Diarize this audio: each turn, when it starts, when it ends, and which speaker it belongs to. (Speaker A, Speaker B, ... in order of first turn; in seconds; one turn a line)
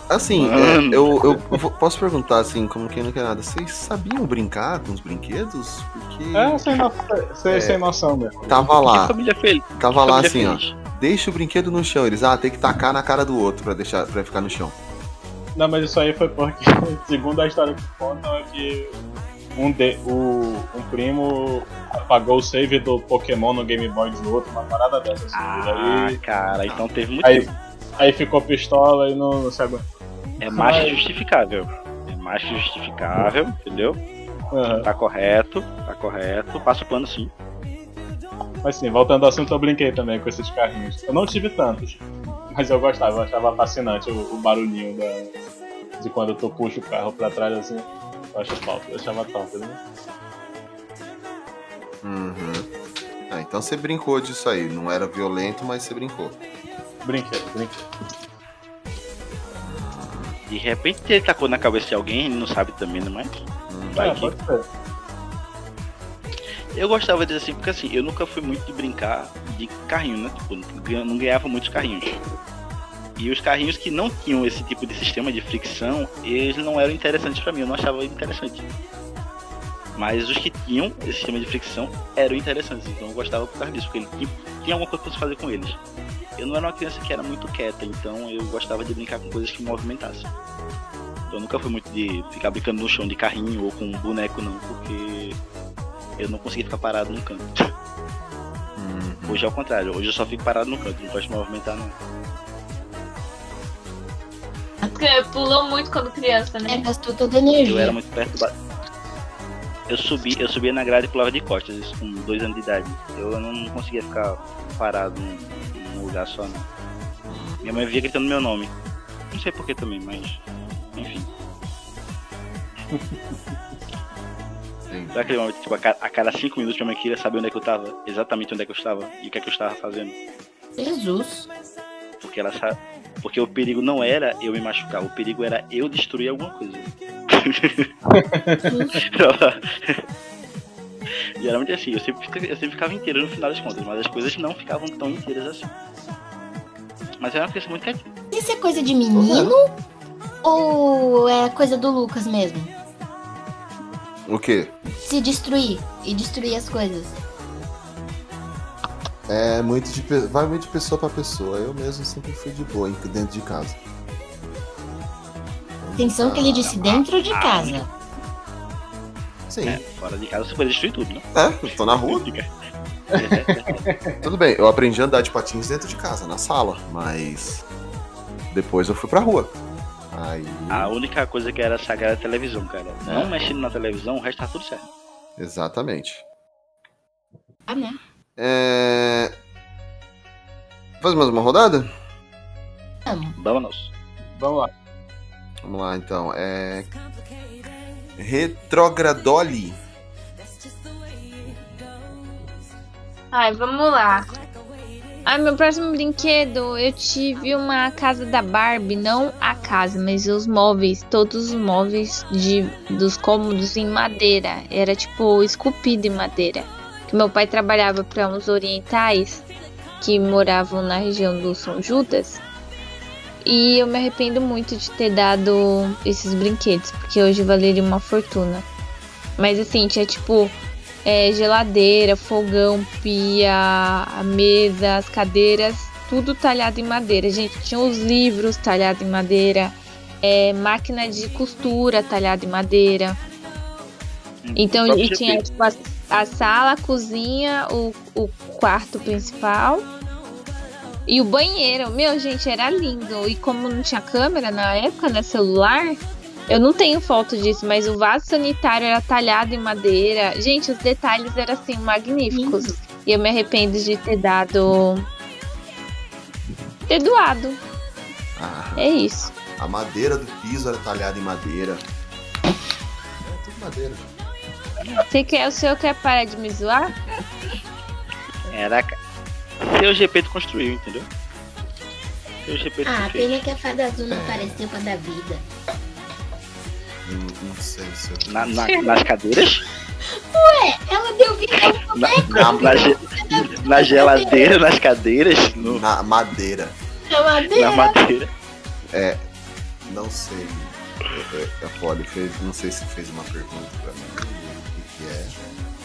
Speaker A: 0.1-6.7
Speaker B: 0.4-1.4
Speaker C: 6.3-8.7
Speaker A: 7.5-7.8
Speaker A: 8.5-9.1
Speaker B: 8.9-10.7
Speaker A: 9.8-14.8
Speaker C: 15.6-18.9
Speaker C: 19.6-26.2
Speaker B: 25.3-27.5
Speaker C: 27.2-29.8
Speaker B: 30.4-34.0
Speaker C: 30.4-31.0
Speaker C: 34.5-34.9
Speaker B: 34.8-37.3
Speaker C: 38.6-45.3
Speaker C: 46.0-49.8
Speaker A: 52.0-52.7
Speaker A: 53.3-56.4
Speaker C: 57.0-57.9
Speaker A: 59.6-60.3
Speaker B: 60.5-63.4
Speaker A: 63.7-64.1
Speaker B: 63.9-64.3
Speaker C: 64.0-64.6
Speaker B: 66.7-72.1
Speaker B: 73.2-78.7
Speaker B: 79.9-85.8
Speaker B: 86.4-90.3
Speaker B: 91.3-95.4
Speaker B: 96.2-97.5
Speaker A: 98.8-99.4
Speaker B: 99.3-101.9
Speaker D: 104.8-106.8
Speaker E: 106.7-108.0
Speaker B: 107.6-108.5
Speaker B: 109.9-116.7
Speaker A: 117.3-117.6
Speaker B: 117.6-118.7
Speaker B: 119.3-120.4
Speaker B: 120.9-121.3
Speaker A: 124.9-125.3
Speaker B: 125.1-130.2
Speaker E: 130.8-131.5
Speaker B: 132.2-137.9
Speaker C: 138.1-138.8
Speaker E: 138.7-138.9
Speaker B: 139.0-140.0
Speaker B: 141.4-145.7
Speaker B: 147.2-148.1
Speaker E: 148.3-149.7
Speaker A: 149.1-149.5
Speaker E: 150.4-152.7
Speaker A: 154.3-154.7
Speaker E: 155.0-157.2
Speaker A: 159.3-163.8
Speaker A: 165.8-166.8
Speaker E: 166.0-167.9
Speaker B: 166.8-167.8
Speaker A: 169.5-169.8
Speaker B: 169.6-172.5
Speaker A: 171.3-172.3
Speaker B: 173.1-173.8
Speaker C: 173.1-174.2
Speaker A: 174.2-177.6
Speaker A: 178.5-179.5
Speaker A: 180.1-180.9
Speaker B: 180.7-184.9
Speaker A: 185.4-186.2
Speaker E: 187.7-188.0
Speaker A: 188.4-189.3
Speaker A: 191.0-191.9
Speaker E: 193.1-193.3
Speaker B: 193.3-193.9
Speaker C: 194.4-194.7
Speaker A: 195.6-196.9
Speaker A: 198.2-199.8
Speaker D: 203.3-204.3
Speaker D: 205.2-219.4
Speaker D: 220.0-222.4
Speaker D: 223.4-228.6
Speaker D: 229.4-243.2
Speaker B: 244.4-245.4
Speaker D: 244.6-249.8
Speaker D: 251.1-265.1
Speaker E: 262.3-262.7
Speaker D: 266.9-267.6
Speaker A: 268.4-268.9
Speaker D: 268.8-269.3
Speaker A: 269.6-271.8
Speaker A: 273.2-274.1
Speaker D: 275.1-276.9
Speaker B: 278.5-278.9
Speaker B: 279.6-281.1
Speaker B: 282.4-283.4
Speaker E: 282.8-285.4
Speaker A: 284.1-284.6
Speaker A: 287.0-288.8
Speaker B: 288.2-289.6
Speaker E: 290.1-294.6
Speaker B: 291.9-295.8
Speaker A: 292.3-293.0
Speaker A: 295.6-296.8
Speaker E: 297.1-298.0
Speaker B: 297.5-298.3
Speaker A: 298.9-299.2
Speaker A: 299.8-305.4